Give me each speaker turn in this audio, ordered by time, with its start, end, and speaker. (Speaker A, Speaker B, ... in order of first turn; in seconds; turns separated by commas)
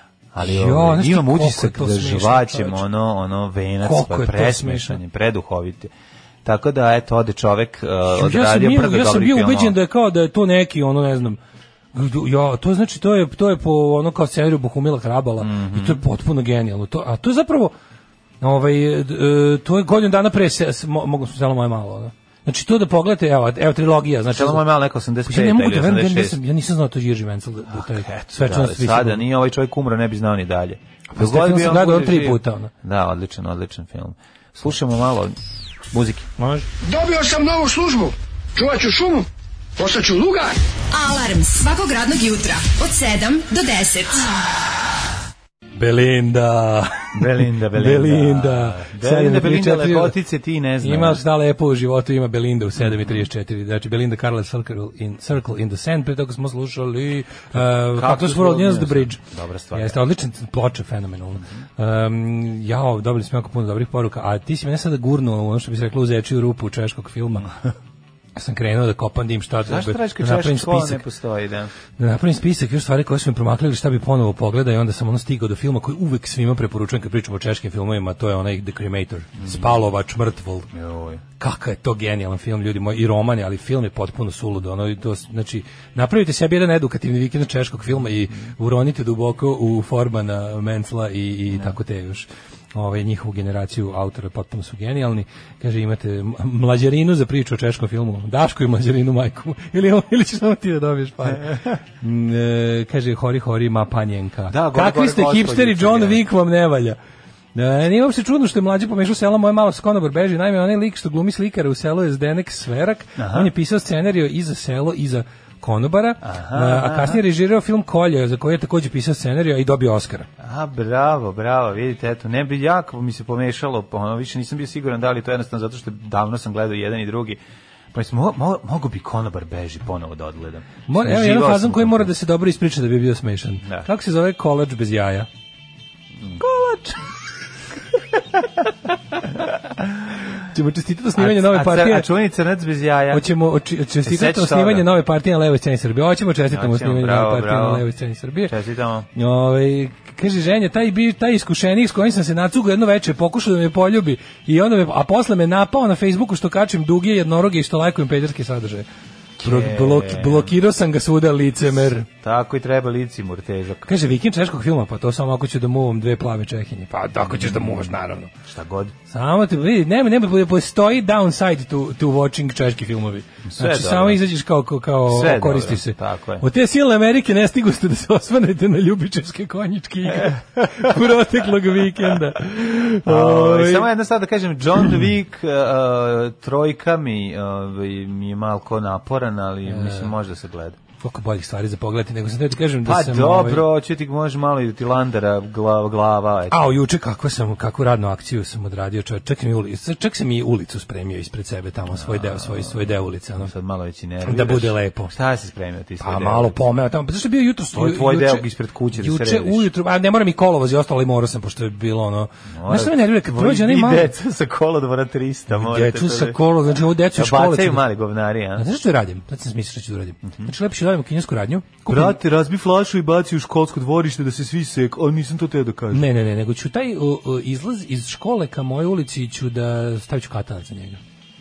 Speaker A: 0.3-5.9, Speaker B: 0.4-2.8, Speaker B: 3.8-5.0, Speaker A: 6.4-9.8, Speaker B: 8.1-11.4, Speaker B: 11.9-17.7, Speaker A: 15.4-16.0, Speaker B: 18.4-24.7, Speaker A: 24.3-26.4, Speaker B: 25.3-29.2, Speaker A: 27.7-35.4, Speaker B: 31.1-32.7, Speaker A: 35.9-36.3, Speaker B: 36.4-36.7, Speaker C: 36.8-40.6, Speaker D: 40.9-44.3, Speaker B: 45.8-50.2, Speaker A: 47.1-51.2, Speaker B: 50.8-59.2, Speaker A: 52.8-53.2, Speaker A: 57.5-60.0, Speaker B: 59.7-67.5, Speaker B: 68.4-71.0, Speaker A: 69.6-71.7, Speaker B: 72.0-80.7, Speaker A: 79.4-79.8, Speaker A: 80.7-81.2, Speaker B: 81.4-107.0, Speaker A: 101.3-101.7, Speaker A: 104.5-106.2, Speaker B: 107.5-120.3, Speaker A: 113.2-113.5, Speaker A: 116.2-117.2, Speaker A: 120.4-127.4, Speaker A: 127.9-132.1, Speaker B: 130.9-135.3, Speaker B: 136.4-137.0, Speaker B: 140.4-142.1, Speaker A: 141.2-143.2, Speaker B: 143.1-148.5, Speaker A: 144.0-144.9, Speaker A: 146.5-147.9, Speaker A: 148.5-149.1, Speaker B: 149.2-158.9, Speaker A: 159.4-160.5, Speaker B: 159.4-162.1, Speaker A: 162.1-164.0, Speaker B: 163.9-168.3, Speaker A: 167.2-169.0, Speaker B: 169.1-183.9, Speaker A: 173.4-174.2, Speaker A: 175.1-176.4, Speaker A: 180.1-181.0, Speaker A: 183.1-190.8, Speaker B: 189.7-190.1, Speaker B: 191.0-193.7, Speaker A: 192.8-196.7, Speaker B: 196.5-203.5, Speaker A: 201.9-206.6, Speaker B: 204.2-205.1, Speaker B: 206.0-214.1, Speaker A: 207.7-209.7, Speaker A: 212.5-216.4, Speaker B: 215.5-217.8, Speaker A: 217.1-218.7, Speaker B: 218.6-222.2, Speaker A: 221.9-226.1, Speaker B: 225.9-231.0